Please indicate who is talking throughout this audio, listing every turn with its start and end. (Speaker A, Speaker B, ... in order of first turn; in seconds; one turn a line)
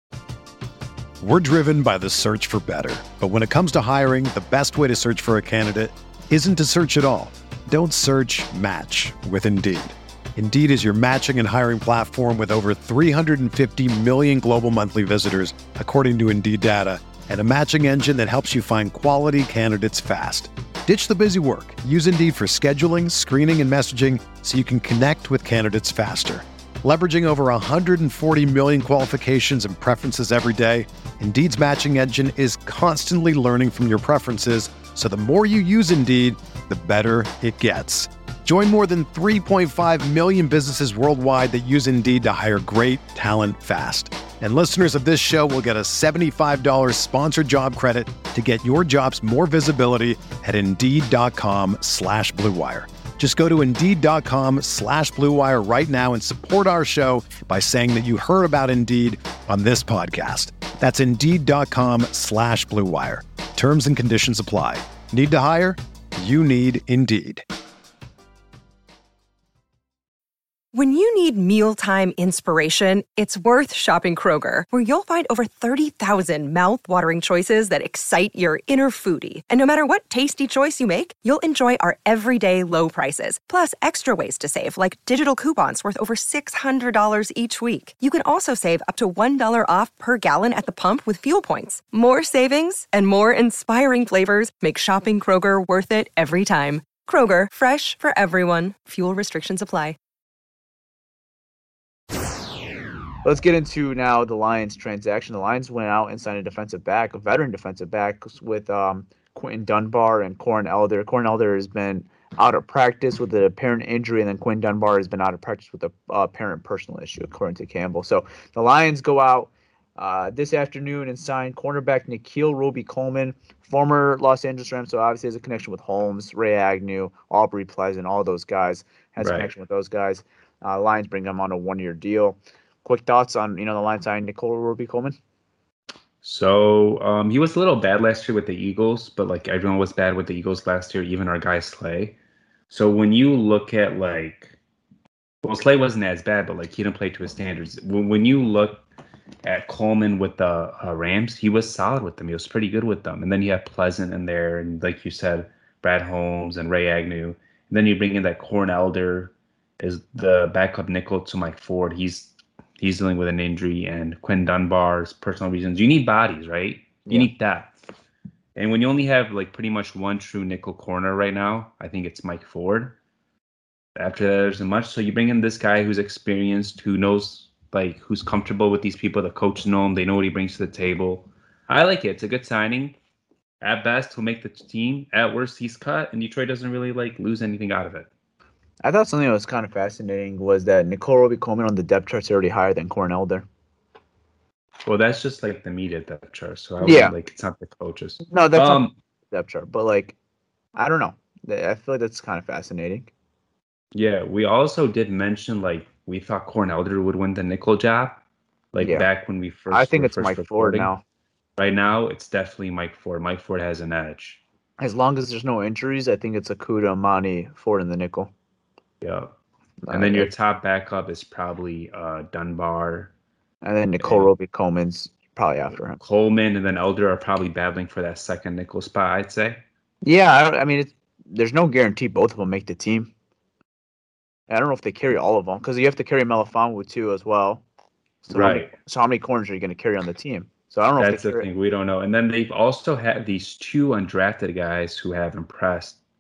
Speaker A: 1.2-67.4
Speaker B: 70.7-100.0
Speaker C: 103.2-135.2
Speaker D: 129.2-129.5
Speaker D: 136.2-142.2
Speaker D: 142.7-144.6
Speaker D: 145.4-148.8
Speaker D: 149.4-167.7
Speaker C: 167.1-167.3
Speaker D: 168.6-173.0
Speaker D: 174.0-183.0
Speaker D: 183.6-188.1
Speaker C: 188.8-193.5
Speaker D: 194.8-198.9
Speaker C: 196.8-197.1
Speaker C: 198.3-200.2
Speaker C: 200.8-203.1
Speaker D: 203.9-208.2
Speaker D: 208.7-210.9
Speaker C: 208.8-209.1
Speaker C: 209.7-211.0
Speaker D: 211.6-214.4
Speaker C: 214.8-218.3
Speaker D: 219.0-219.3
Speaker C: 219.9-220.3
Speaker D: 219.9-223.1
Speaker C: 223.6-226.0
Speaker D: 224.0-224.3
Speaker D: 226.0-229.6
Speaker C: 230.0-233.1
Speaker C: 234.5-237.6
Speaker C: 238.2-241.5
Speaker D: 238.3-238.7
Speaker D: 241.0-246.0